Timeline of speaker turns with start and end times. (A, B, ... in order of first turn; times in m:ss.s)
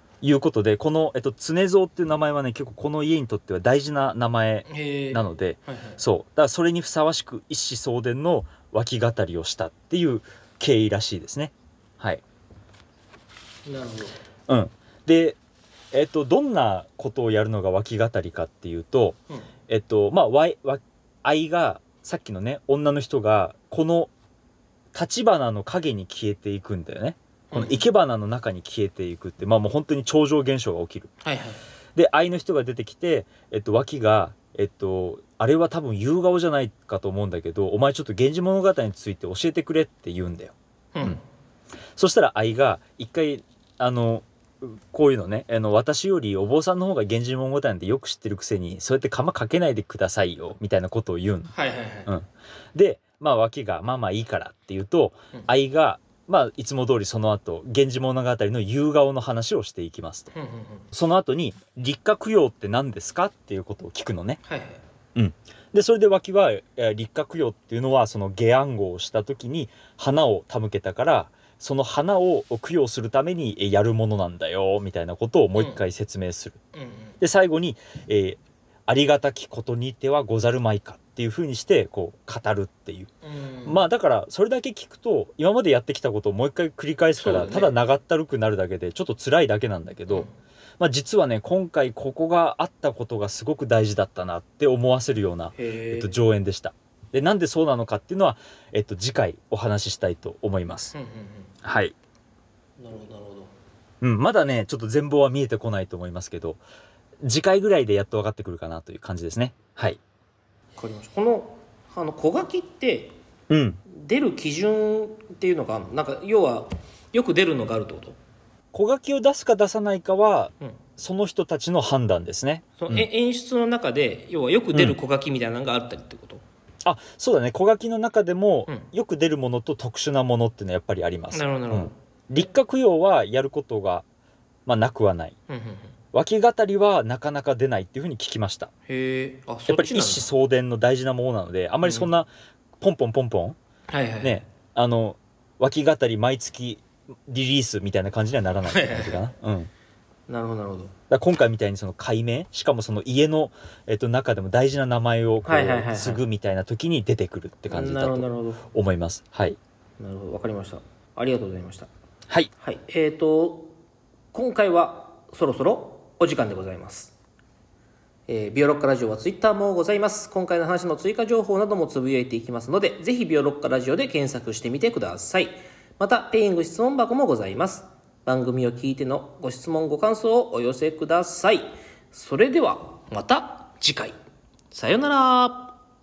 0:00.2-0:12.2 A
0:04.7-0:06.0 B
0:13.6-0:14.2 B
0:14.5-0:15.4 A
0:15.9-0:24.1 A
0:24.9-0:31.1 A
0:27.5-0:27.8 B
0:31.2-0:31.6 B
0:31.9-0:41.2 A
0:40.9-0:41.2 B
0:42.0-0:51.5 A
0:51.5-0:52.1 B
0:52.1-1:00.3 A
1:00.3-1:00.8 B
1:00.9-1:04.4 A
1:04.4-1:04.8 B
1:05.1-1:16.6 A
1:16.7-1:17.2 B
1:17.2-1:23.1 A
1:23.2-1:23.8 B
1:23.6-1:30.3 A
1:27.2-1:27.7 B
1:30.8-1:40.9 A
1:35.6-1:36.2 B
1:40.9-1:41.5 B
1:41.6-1:41.9 A
1:42.8-1:43.5 B
1:44.0-1:46.6 A
1:47.2-1:50.0 A
1:50.8-1:53.2 B
1:53.5-1:53.8 A
1:53.9-1:58.2 B
1:58.7-2:03.1 A
2:02.8-2:06.4 B
2:06.8-2:14.0 A
2:11.3-2:11.9 B
2:14.6-2:15.4 A
2:15.5-2:15.9 B
2:16.1-2:18.7 A
2:18.9-2:20.3 B
2:19.7-2:23.6 A
2:21.8-2:22.1 B
2:23.9-2:24.4 B
2:24.2-2:29.7 A
2:28.6-2:29.2 B
2:30.3-2:30.9 B
2:31.1-2:39.6 A
2:35.4-2:36.2 B
2:37.7-2:38.6 B
2:40.0-2:41.9 B
2:42.6-2:43.7 B
2:44.3-2:47.1 B
2:48.3-3:04.1 B
3:04.7-3:05.7 B